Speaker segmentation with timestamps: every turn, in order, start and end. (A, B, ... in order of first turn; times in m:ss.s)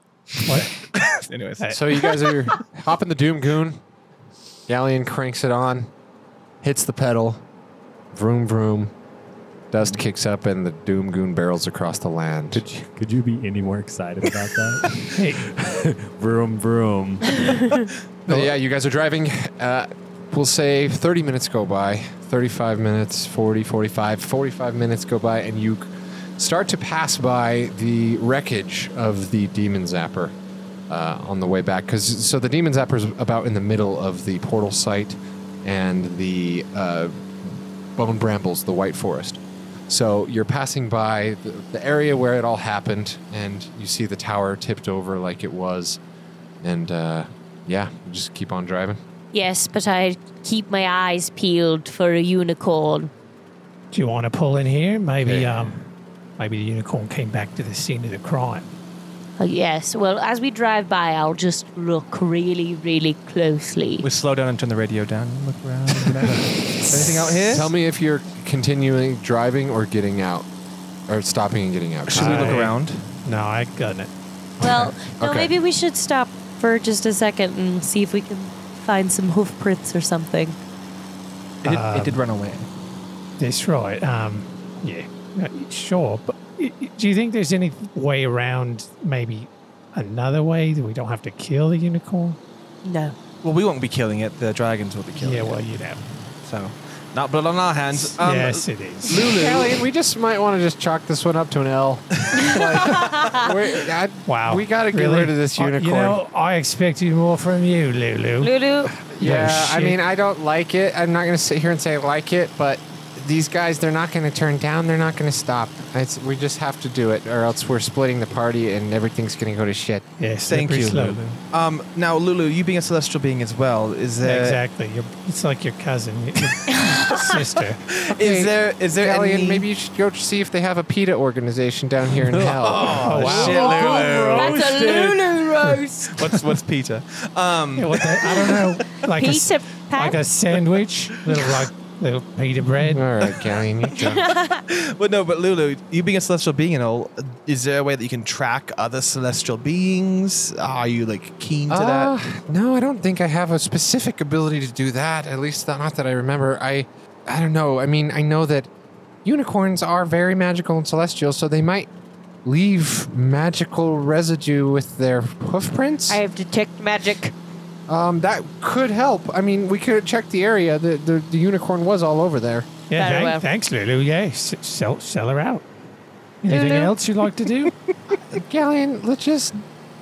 0:00.4-0:00.8 A
0:00.4-0:02.3 B
0:01.7-0:03.8 C
0:04.7-0:05.9 C
0:06.6-0:07.4 C
0:08.1-0:08.9 C
0:09.7-0:12.7 C
0:12.5-0:17.8 D
0:15.1-0:15.5 A
0:17.5-0:17.8 E
0:18.3-0:30.4 C
0:30.9-0:46.0 C
0:46.6-0:49.0 C
0:49.3-0:53.1 E
0:53.9-0:55.8 A
0:55.2-0:55.8 C
0:56.4-0:58.8 A
0:59.4-1:04.1 E
1:04.0-1:07.7 B
1:07.4-1:10.5 C
1:11.1-1:12.7 C
1:12.1-1:13.1 B
1:12.1-1:14.1 A
1:14.6-1:20.6 E
1:15.0-1:15.5 C
1:21.6-1:22.7 B
1:21.6-1:22.2 A
1:23.4-1:32.4 A
1:32.8-1:33.2 E
1:33.4-1:35.6 B
1:35.2-1:36.0 A
1:36.4-1:39.8 B
1:38.0-1:39.2 A
1:39.2-1:46.2 C
1:42.5-1:43.5 E
1:44.3-1:48.5 A
1:48.4-1:48.9 E
1:49.1-2:00.1 C
1:49.2-1:50.0 A
2:00.2-2:01.4 A
2:00.5-2:04.6 B
2:04.2-2:07.8 A
2:06.7-2:07.3 E
2:07.9-2:09.6 B
2:08.1-2:13.4 C
2:12.3-2:14.7 B
2:13.0-2:13.8 A
2:13.2-2:15.3 D
2:13.4-2:16.4 E
2:16.2-2:19.0 B
2:17.8-2:23.1 A
2:19.1-2:20.2 E
2:22.9-2:24.3 C
2:23.2-2:23.9 B
2:24.0-2:24.6 E
2:24.6-2:32.1 B
2:31.7-2:38.7 C
2:39.2-2:41.9 C
2:42.4-2:46.2 C
2:46.1-2:47.3 E
2:47.9-2:52.7 C
2:52.9-2:55.7 A
2:53.0-2:53.5 E
2:56.4-2:57.7 A
2:56.5-2:57.0 E
2:58.3-2:59.6 C